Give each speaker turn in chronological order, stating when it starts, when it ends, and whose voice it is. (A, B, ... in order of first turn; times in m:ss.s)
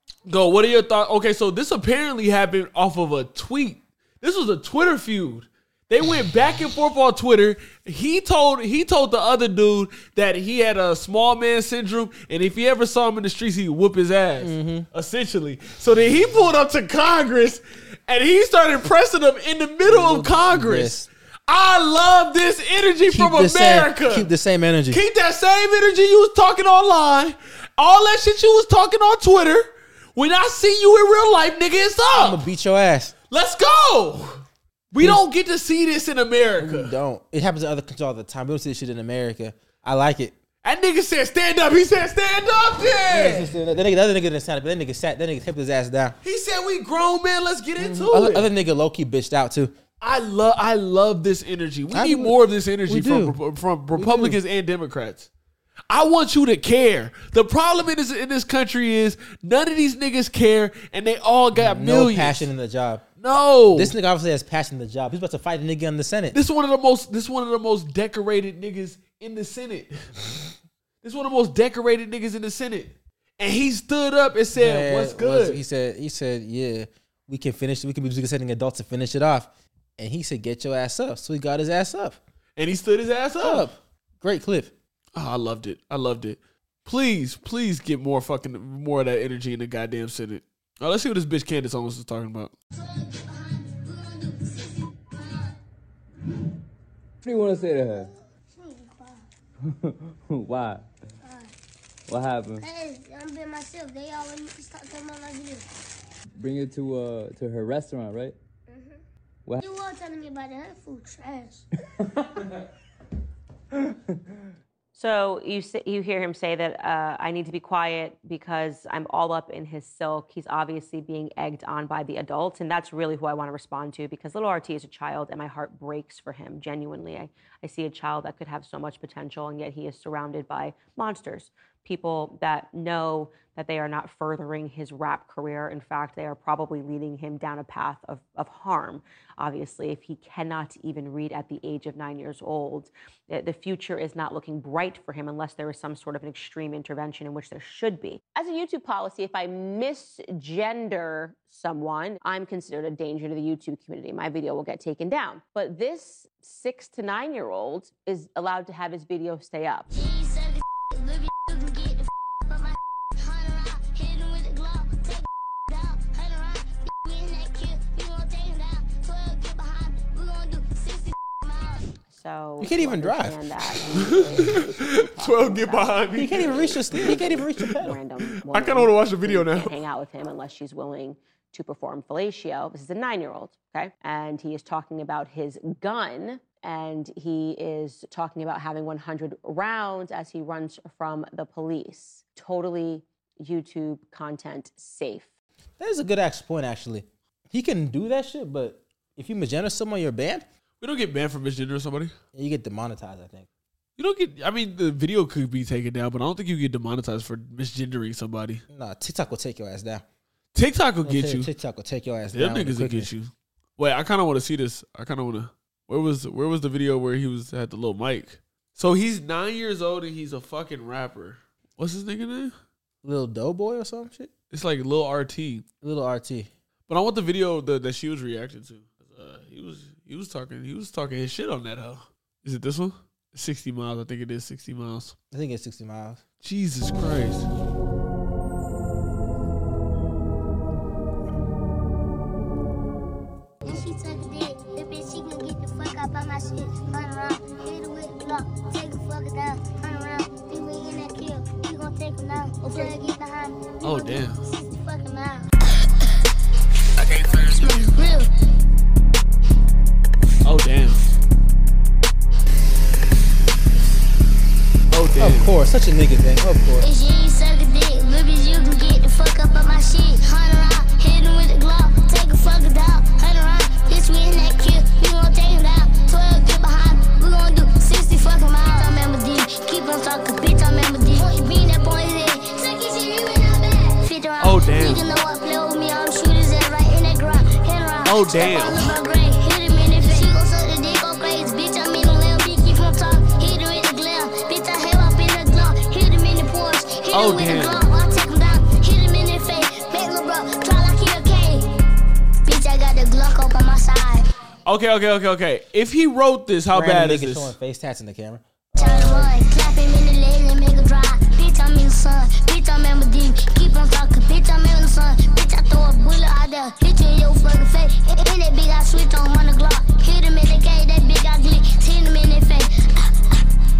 0:00.3-0:24.3 A
0:14.4-0:14.9 B
0:19.8-0:21.1 B
0:23.1-0:25.0 B
0:24.9-0:32.4 A
0:32.1-0:33.1 B
0:33.3-0:36.9 A
0:35.0-0:35.2 B
0:36.6-0:40.3 B
0:40.6-0:43.5 A
0:43.0-0:46.2 B
0:46.2-0:48.5 A
0:47.8-0:49.7 B
0:50.0-0:55.3 A
0:51.9-0:53.4 B
0:53.9-0:54.4 B
0:55.9-1:02.5 A
1:01.5-1:03.0 B
1:03.2-1:03.9 A
1:03.7-1:06.4 B
1:06.3-1:10.1 A
1:11.0-1:15.6 A
1:14.5-1:22.2 B
1:22.6-1:23.7 A
1:23.4-1:24.7 B
1:25.2-1:32.5 A
1:32.9-1:35.4 C
1:37.2-1:38.1 D
1:38.6-1:39.2 C
1:39.7-1:40.8 D
1:42.1-1:42.6 D
1:42.6-1:45.6 C
1:46.4-1:48.4 D
1:49.6-1:51.6 C
1:54.9-2:39.9 E
2:39.9-2:51.8 C
2:52.1-3:15.3 E
2:52.6-2:53.4 B
2:53.9-2:59.7 A
2:56.1-2:58.0 B
3:15.8-3:20.4 B
3:20.8-3:22.1 A
3:22.3-3:23.5 B
3:24.0-3:28.6 A
3:28.7-3:30.0 B
3:30.5-3:31.5 A
3:31.0-3:33.1 B
3:32.3-3:42.5 A
3:43.0-3:44.3 B
3:44.5-3:45.6 A
3:45.8-3:46.5 B
3:46.9-3:55.1 A
3:55.3-3:56.2 B
3:56.4-3:57.5 A
4:03.6-4:15.5 C
4:13.8-4:14.4 A
4:17.3-4:18.3 C
4:20.4-4:21.0 A
4:24.9-4:25.5 A
4:25.2-4:26.8 B
4:26.8-5:01.6 C
4:44.4-4:45.0 A
4:48.0-4:48.9 A
4:57.1-4:57.8 A
5:02.4-5:04.2 C
5:04.6-5:07.5 A
5:06.7-5:09.4 B
5:08.8-5:23.3 C